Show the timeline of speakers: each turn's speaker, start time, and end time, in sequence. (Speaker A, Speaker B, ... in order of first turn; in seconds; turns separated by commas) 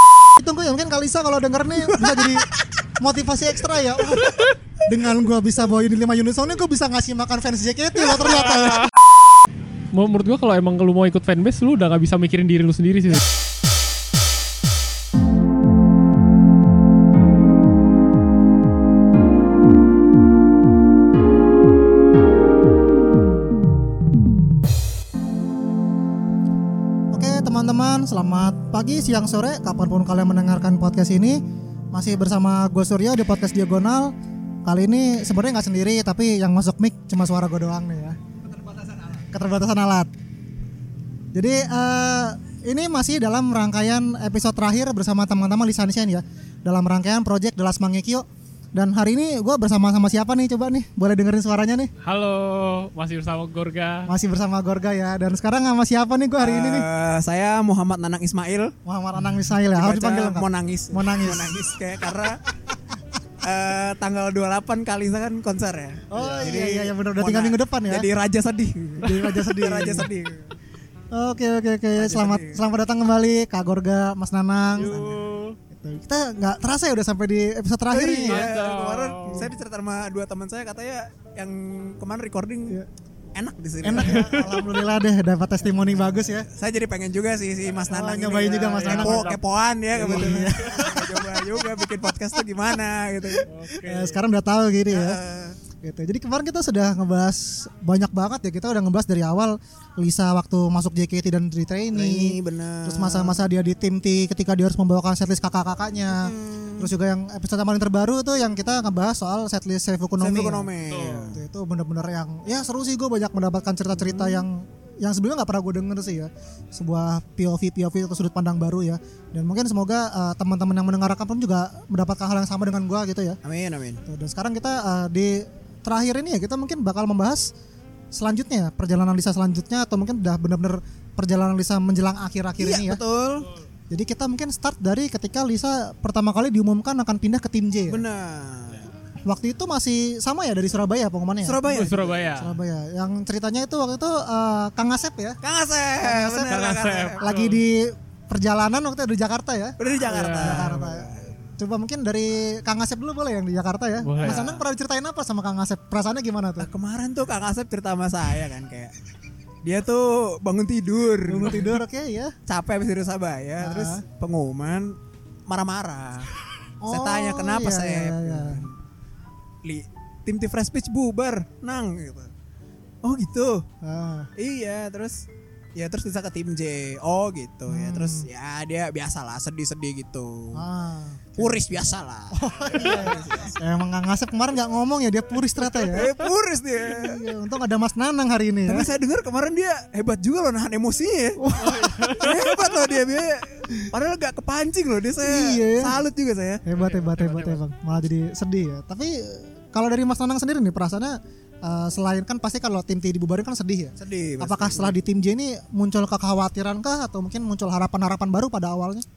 Speaker A: 0.4-8.9, Speaker B: 9.9-13.2, Speaker A: 27.1-31.4, Speaker A: 31.9-34.1, Speaker A: 34.6-38.2, Speaker A: 39.3-40.1, Speaker A: 41.3-51.9, Speaker B: 52.0-54.1, Speaker A: 54.0-56.9, Speaker C: 56.4-58.7, Speaker A: 58.8-61.6, Speaker C: 59.7-62.4, Speaker A: 62.4-62.7, Speaker C: 63.4-70.5, Speaker A: 66.1-68.1, Speaker A: 69.0-70.1, Speaker A: 71.1-75.1, Speaker C: 71.9-72.6, Speaker C: 74.8-75.2, Speaker B: 74.8-75.6, Speaker A: 75.7-78.5, Speaker C: 77.9-82.8, Speaker B: 78.1-79.5, Speaker C: 83.3-84.4, Speaker A: 83.8-86.5, Speaker B: 84.0-84.6, Speaker C: 86.4-93.6, Speaker A: 87.9-89.4, Speaker B: 88.6-89.4, Speaker A: 89.9-92.1, Speaker B: 90.1-90.5, Speaker B: 93.5-94.2, Speaker A: 93.6-95.2, Speaker C: 94.9-95.6, Speaker A: 95.8-110.7, Speaker C: 101.9-103.4, Speaker C: 106.1-106.9, Speaker C: 110.2-111.4, Speaker B: 110.9-111.2, Speaker A: 111.3-123.4, Speaker C: 123.4-124.0, Speaker A: 124.0-127.5, Speaker A: 128.1-133.0, Speaker C: 132.6-133.6, Speaker A: 133.9-138.0, Speaker C: 137.9-138.9, Speaker A: 139.2-141.6, Speaker C: 141.4-142.2, Speaker B: 141.7-142.6, Speaker A: 142.3-145.4, Speaker C: 145.4-147.2, Speaker A: 146.0-146.5, Speaker B: 146.4-147.6, Speaker A: 147.2-149.8, Speaker C: 149.8-151.4, Speaker B: 150.1-150.8, Speaker A: 150.4-156.7, Speaker B: 154.0-154.5, Speaker C: 154.2-154.6, Speaker C: 156.6-158.9, Speaker C: 159.6-161.7, Speaker A: 161.3-162.3, Speaker C: 162.5-164.9, Speaker A: 163.6-164.0, Speaker C: 165.5-166.3, Speaker A: 166.8-168.7, Speaker C: 166.9-168.7, Speaker C: 169.6-172.3, Speaker C: 173.0-173.7, Speaker A: 173.8-174.3, Speaker C: 174.3-180.6, Speaker A: 177.7-178.3, Speaker A: 180.5-181.6, Speaker C: 181.4-183.6, Speaker A: 182.3-186.2, Speaker C: 185.6-187.2, Speaker A: 186.8-188.9, Speaker C: 188.7-191.5, Speaker A: 191.4-192.4, Speaker B: 191.6-192.5, Speaker C: 192.1-196.6, Speaker A: 195.2-196.0, Speaker A: 196.7-209.1, Speaker B: 196.7-197.6, Speaker C: 204.0-205.0